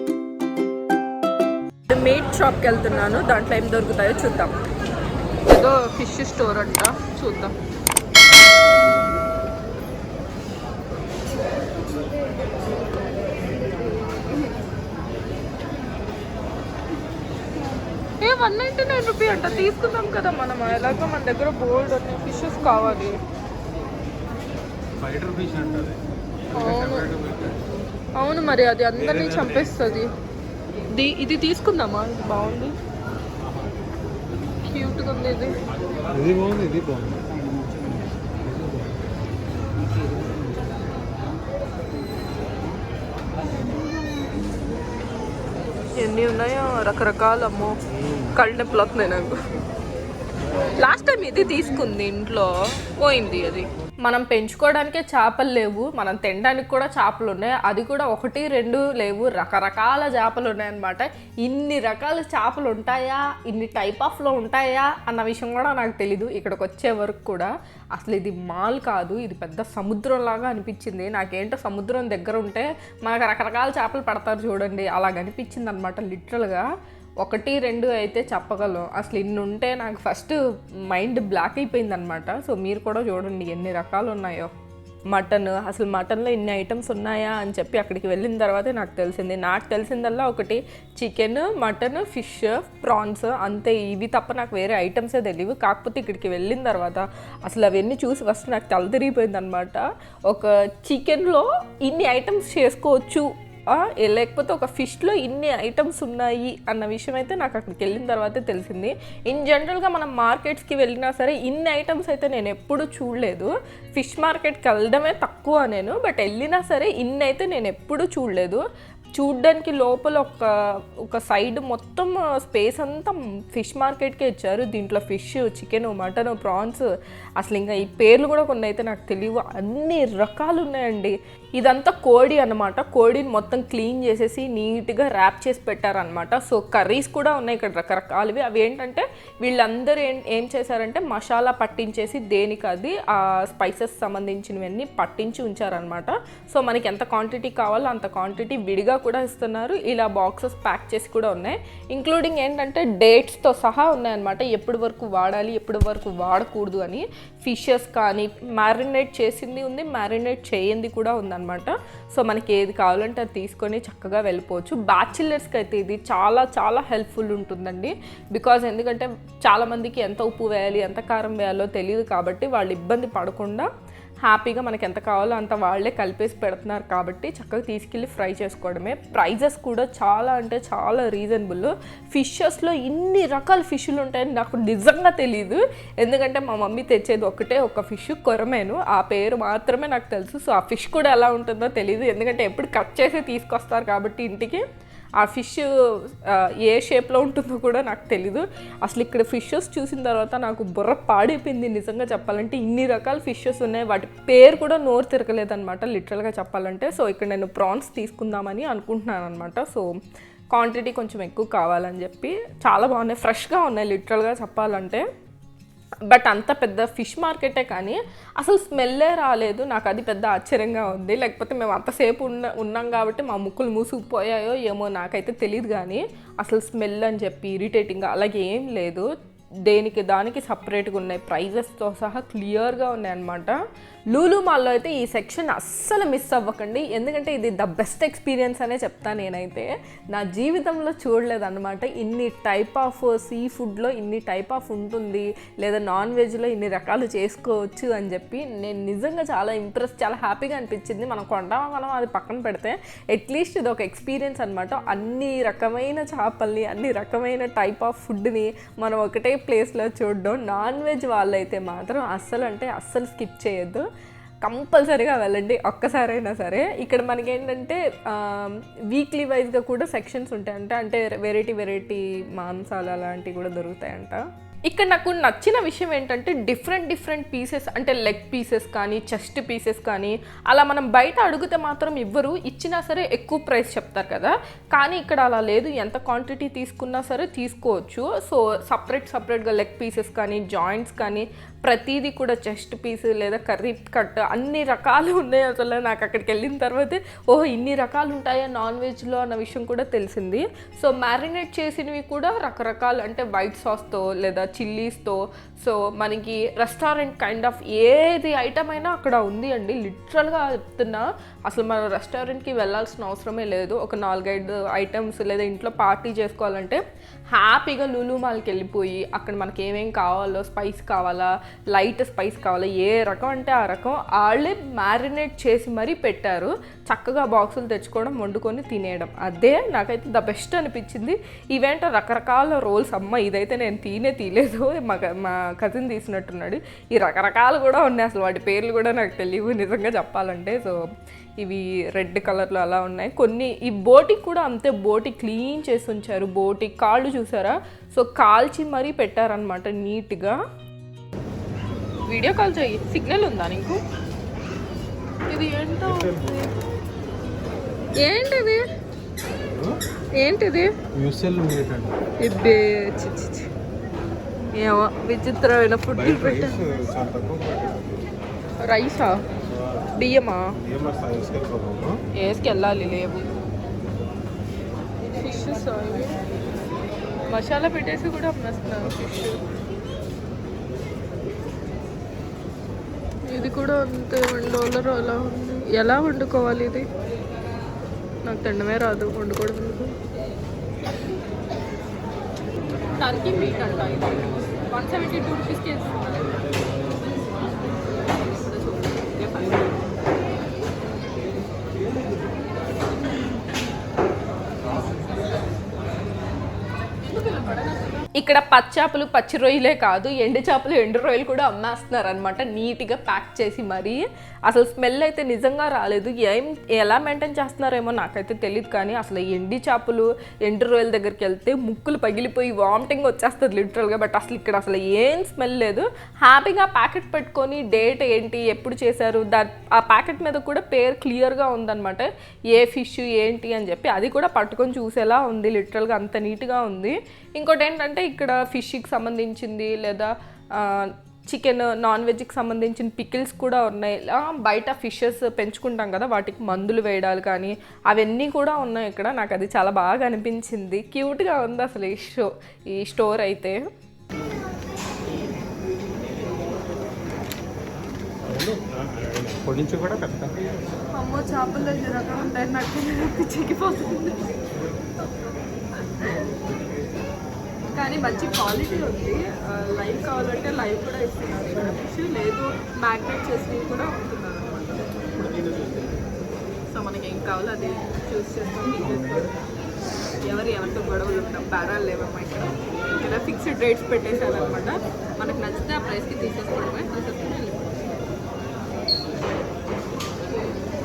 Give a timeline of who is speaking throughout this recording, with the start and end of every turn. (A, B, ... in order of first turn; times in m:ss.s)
0:01.9-0:04.6 A
0:05.5-0:07.5 A
0:18.2-0:23.2 A
0:25.0-0:26.0 B
0:26.5-0:27.1 A
0:26.6-0:27.6 B
0:28.2-0:30.1 A
0:30.9-0:32.8 A
0:34.6-0:35.6 A
0:36.1-0:38.8 B
0:46.0-0:49.4 A
0:50.8-1:16.7 A
1:17.2-1:24.5 A
1:25.1-1:58.6 A
1:59.2-2:53.7 A
2:54.2-3:14.6 A
3:15.2-3:29.9 A
3:30.5-3:35.0 A
3:36.1-3:49.1 A
3:49.7-3:53.6 A
3:54.1-4:23.8 A
4:24.4-5:16.8 A
5:17.3-5:40.8 A
5:41.4-5:50.4 A
5:52.1-5:53.8 A
5:55.3-5:56.5 A
5:55.9-5:56.4 B
5:58.0-5:58.7 A
5:59.5-5:59.8 B
6:00.2-6:00.7 A
6:01.0-6:01.9 B
6:02.2-6:03.5 A
6:04.6-6:06.6 A
6:05.9-6:08.1 B
6:08.6-6:09.2 A
6:10.0-6:10.5 A
6:10.6-6:12.0 B
6:12.2-6:13.3 A
6:15.2-6:16.2 A
6:17.3-6:19.4 A
6:23.3-6:26.9 A
6:28.2-6:30.0 A
6:33.0-6:36.6 A
6:37.9-6:40.0 A
6:47.0-7:33.6 A
7:38.2-7:40.5 B
7:41.0-7:44.4 A
7:47.7-7:55.0 A
7:56.7-7:59.3 A
8:00.2-8:07.8 A